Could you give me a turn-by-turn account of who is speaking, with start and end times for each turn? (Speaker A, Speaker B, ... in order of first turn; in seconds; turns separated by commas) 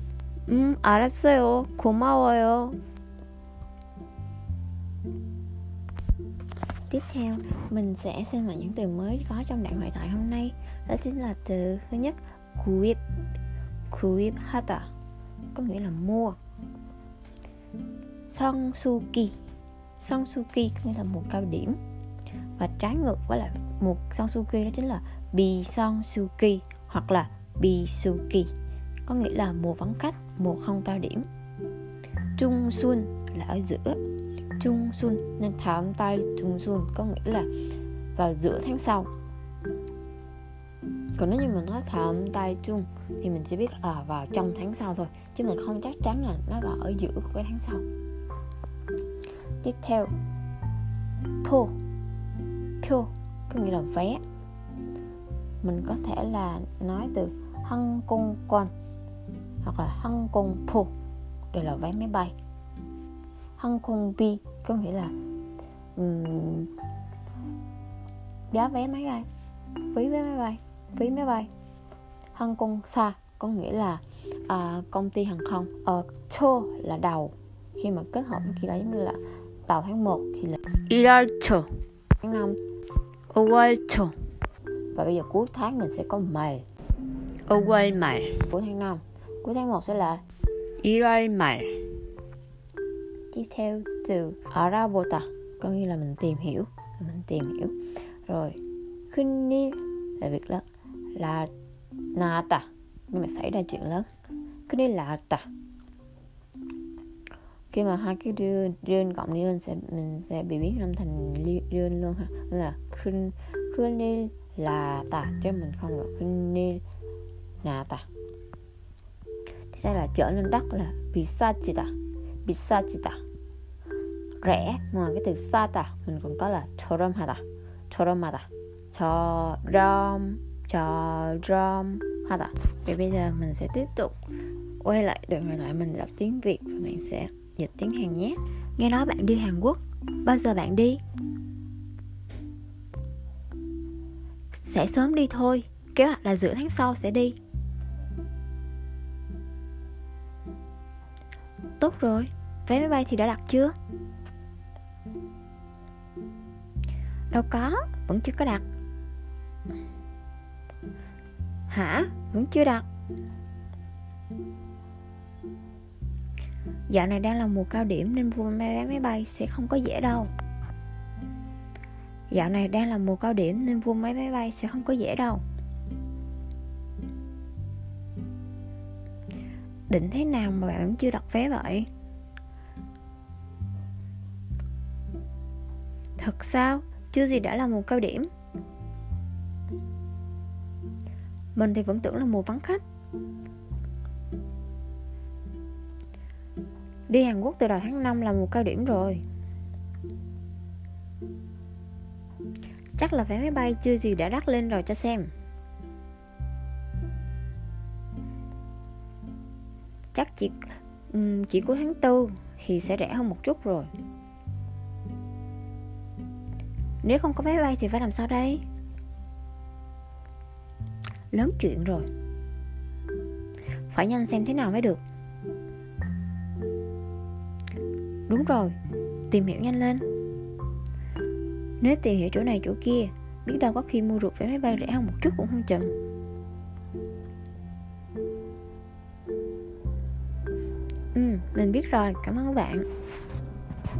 Speaker A: 0.5-2.8, Speaker A: 6.9-13.0, Speaker A: 13.9-14.9, Speaker A: 15.5-16.4, Speaker A: 18.3-19.3, Speaker A: 20.0-21.8, Speaker A: 22.6-28.5, Speaker A: 29.1-31.3, Speaker A: 32.4-34.0, Speaker A: 34.6-37.5, Speaker A: 38.1-39.1, Speaker A: 41.1-47.9, Speaker A: 49.6-50.1, Speaker A: 51.4-51.7, Speaker A: 52.8-54.2, Speaker A: 55.6-58.7, Speaker A: 59.6-60.9, Speaker A: 61.5-62.3, Speaker A: 63.6-65.1, Speaker A: 66.0-66.7, Speaker A: 68.5-69.3, Speaker A: 69.9-71.5, Speaker A: 72.3-81.7, Speaker A: 82.2-82.6, Speaker A: 83.3-84.1, Speaker A: 84.9-86.6, Speaker A: 87.5-90.2, Speaker A: 90.8-91.7, Speaker A: 93.3-97.7, Speaker A: 98.3-100.6, Speaker A: 101.2-101.5, Speaker A: 102.1-104.1, Speaker A: 104.7-105.5, Speaker A: 107.7-116.8, Speaker A: 117.6-118.0, Speaker A: 119.7-121.9, Speaker A: 122.4-123.2, Speaker A: 124.4-134.2, Speaker A: 134.8-141.0, Speaker A: 144.5-147.3, Speaker A: 151.8-153.7, Speaker A: 157.3-158.6, Speaker A: 161.7-162.8, Speaker A: 166.9-170.3, Speaker A: 172.3-175.4, Speaker A: 179.9-181.9, Speaker A: 186.2-188.3, Speaker A: 191.5-192.8, Speaker A: 197.1-199.2, Speaker A: 202.9-205.3, Speaker A: 210.1-210.6, Speaker A: 211.1-213.9, Speaker A: 217.0-218.6, Speaker A: 221.3-222.1, Speaker A: 223.9-225.0, Speaker A: 228.3-228.7, Speaker A: 229.3-230.1, Speaker A: 231.8-235.9, Speaker A: 241.1-242.8